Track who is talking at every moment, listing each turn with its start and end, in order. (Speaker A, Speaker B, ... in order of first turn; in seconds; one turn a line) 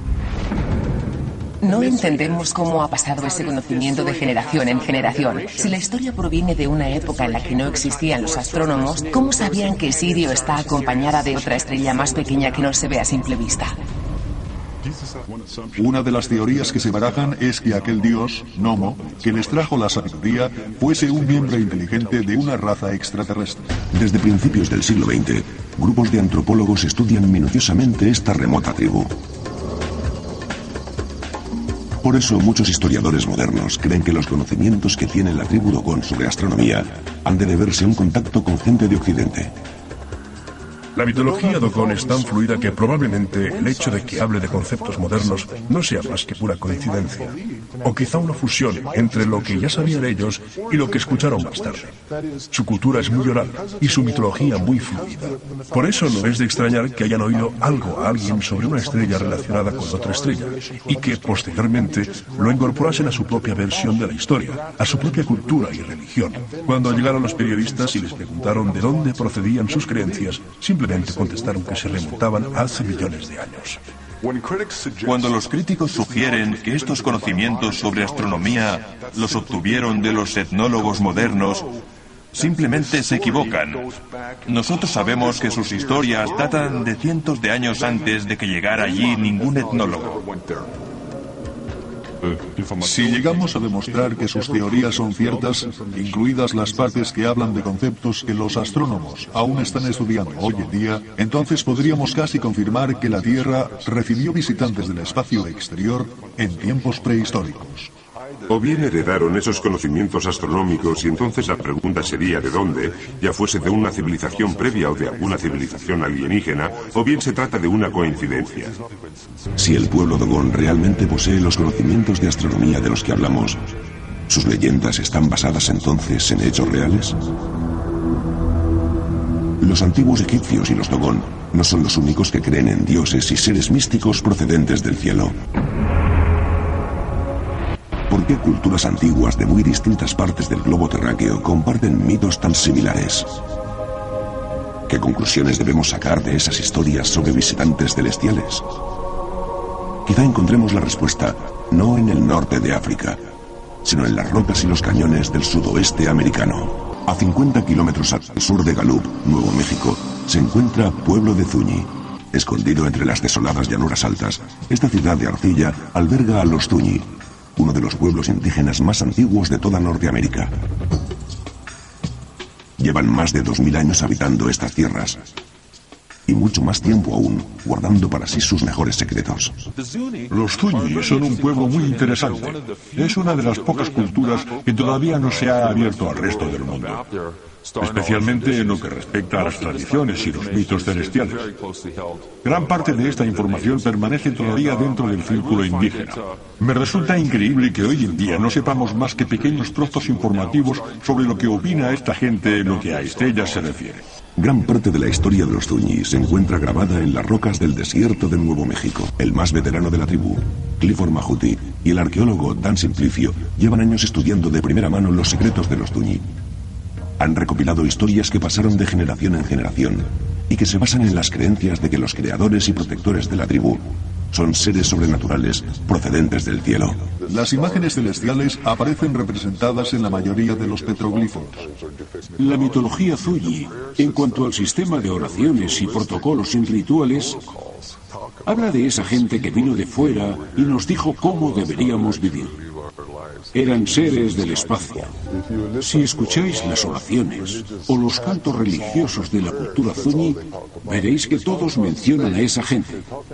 Speaker A: 1.6-13.8
Speaker B: 15.8-23.6
Speaker C: 23.9-29.1
Speaker C: 32.0-39.5
Speaker D: 41.0-51.9
Speaker D: 52.5-73.8
Speaker E: 75.0-81.7
Speaker E: 82.3-83.8
Speaker E: 84.5-90.2
Speaker B: 92.8-107.9
Speaker F: 108.5-118.8
Speaker C: 119.6-123.6
Speaker C: 124.3-127.2
Speaker C: 129.6-135.4
Speaker C: 138.1-143.3
Speaker C: 144.9-148.7
Speaker C: 150.1-153.2
Speaker C: 153.8-170.5
Speaker C: 172.8-175.2
Speaker C: 176.3-179.6
Speaker G: 180.3-187.0
Speaker G: 187.8-191.5
Speaker G: 192.4-204.0
Speaker C: 204.4-216.3
Speaker C: 217.2-227.0
Speaker B: 227.2-231.6
Speaker H: 232.4-237.4
Speaker H: 238.5-242.6
Speaker H: 243.5-245.1
Speaker H: 245.8-253.0